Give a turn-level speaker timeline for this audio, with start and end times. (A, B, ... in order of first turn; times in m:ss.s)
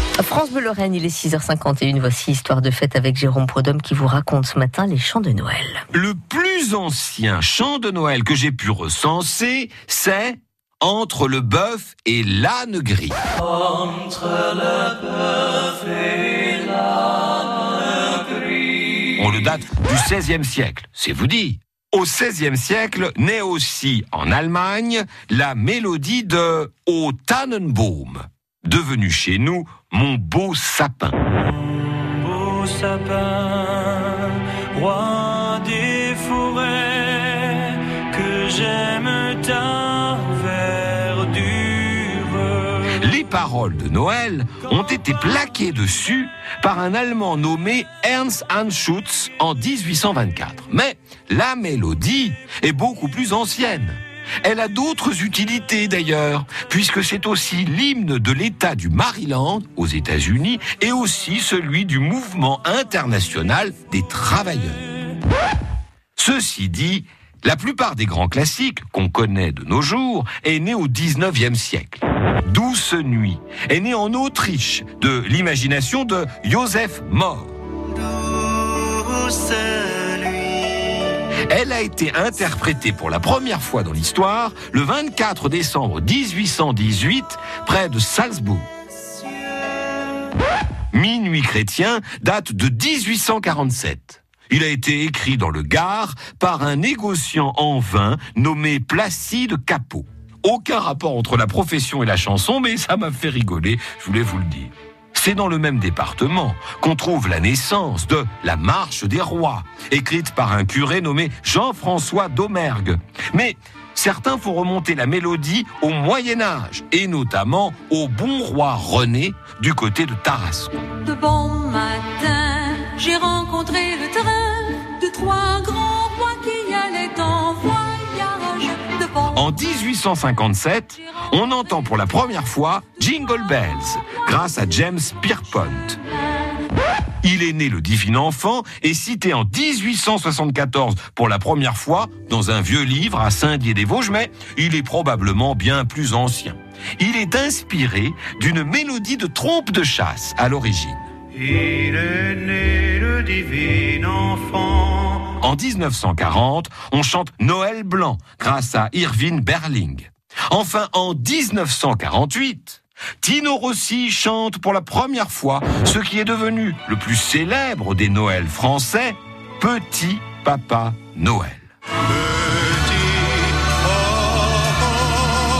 0:00.2-0:05.8 A
0:05.9-0:13.2 B
0:19.2-0:31.2 B
0:31.9-0:42.8 C
0:42.8-1:04.8 B
1:06.2-1:17.5 B
1:18.6-1:20.8 C
1:21.5-1:28.6 B
1:30.9-2:00.9 B
2:00.9-2:09.5 D
2:09.3-2:16.0 B
2:17.2-2:31.0 B
2:31.4-2:35.3 C
2:35.4-2:51.7 B
2:52.8-2:54.9 C